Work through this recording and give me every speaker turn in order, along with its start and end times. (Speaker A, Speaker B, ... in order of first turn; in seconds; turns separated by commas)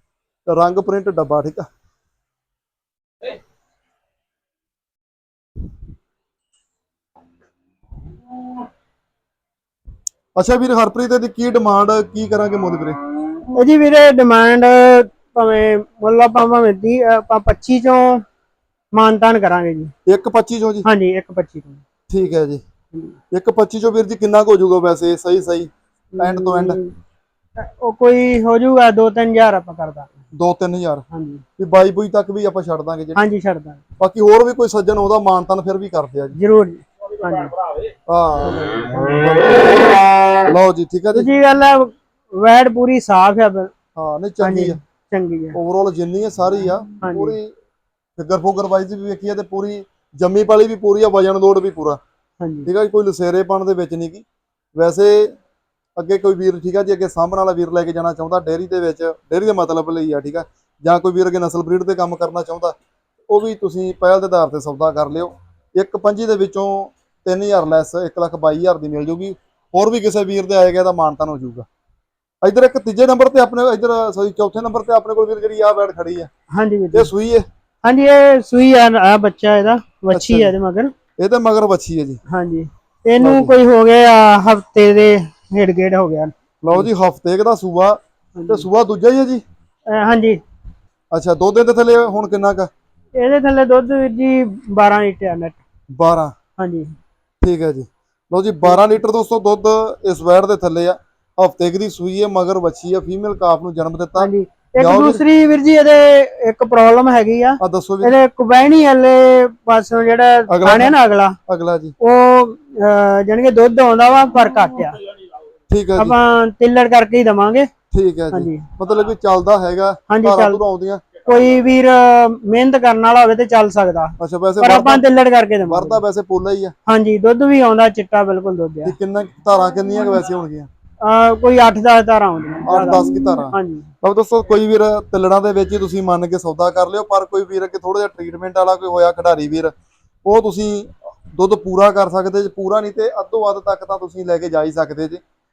Speaker A: 0.5-1.7, Speaker A: 10.4-13.0, Speaker B: 13.5-18.2, Speaker B: 18.9-19.9, Speaker A: 20.1-20.9, Speaker B: 20.8-21.8, Speaker A: 22.1-22.6, Speaker A: 23.3-26.8, Speaker B: 26.1-26.9, Speaker B: 27.6-30.1, Speaker A: 30.3-31.0, Speaker B: 31.1-31.4, Speaker A: 31.6-33.2, Speaker B: 33.1-33.8, Speaker A: 34.0-36.4, Speaker B: 36.4-37.5, Speaker A: 38.1-40.0, Speaker B: 38.4-39.3, Speaker A: 40.5-41.3, Speaker B: 41.1-43.7, Speaker A: 44.0-44.8, Speaker B: 44.4-45.6, Speaker A: 45.5-47.5, Speaker B: 47.0-47.4, Speaker A: 48.2-52.0, Speaker B: 52.4-52.7, Speaker A: 52.7-55.4, Speaker A: 56.0-62.7, Speaker A: 63.3-71.7, Speaker A: 72.4-76.3, Speaker B: 76.5-77.1, Speaker A: 76.9-77.5, Speaker B: 77.8-80.9, Speaker A: 80.1-80.5, Speaker A: 81.2-82.2, Speaker B: 82.3-86.9, Speaker A: 83.2-83.5, Speaker A: 86.6-89.4, Speaker B: 88.4-88.7, Speaker B: 89.9-90.4, Speaker A: 91.1-92.7, Speaker B: 93.1-95.6, Speaker A: 95.9-96.3, Speaker B: 96.6-97.0, Speaker A: 97.4-105.2, Speaker B: 104.2-111.4, Speaker A: 107.6-108.2, Speaker A: 110.5-111.0, Speaker A: 111.5-112.0, Speaker B: 112.0-115.0, Speaker A: 115.7-116.2, Speaker B: 116.0-117.7, Speaker A: 117.9-121.0, Speaker B: 118.3-118.7, Speaker B: 120.1-120.6, Speaker B: 121.2-126.0, Speaker A: 124.2-125.0, Speaker A: 125.7-126.7, Speaker B: 126.9-128.9, Speaker A: 128.8-130.7, Speaker B: 131.0-133.9, Speaker A: 132.7-139.7, Speaker A: 140.2-145.2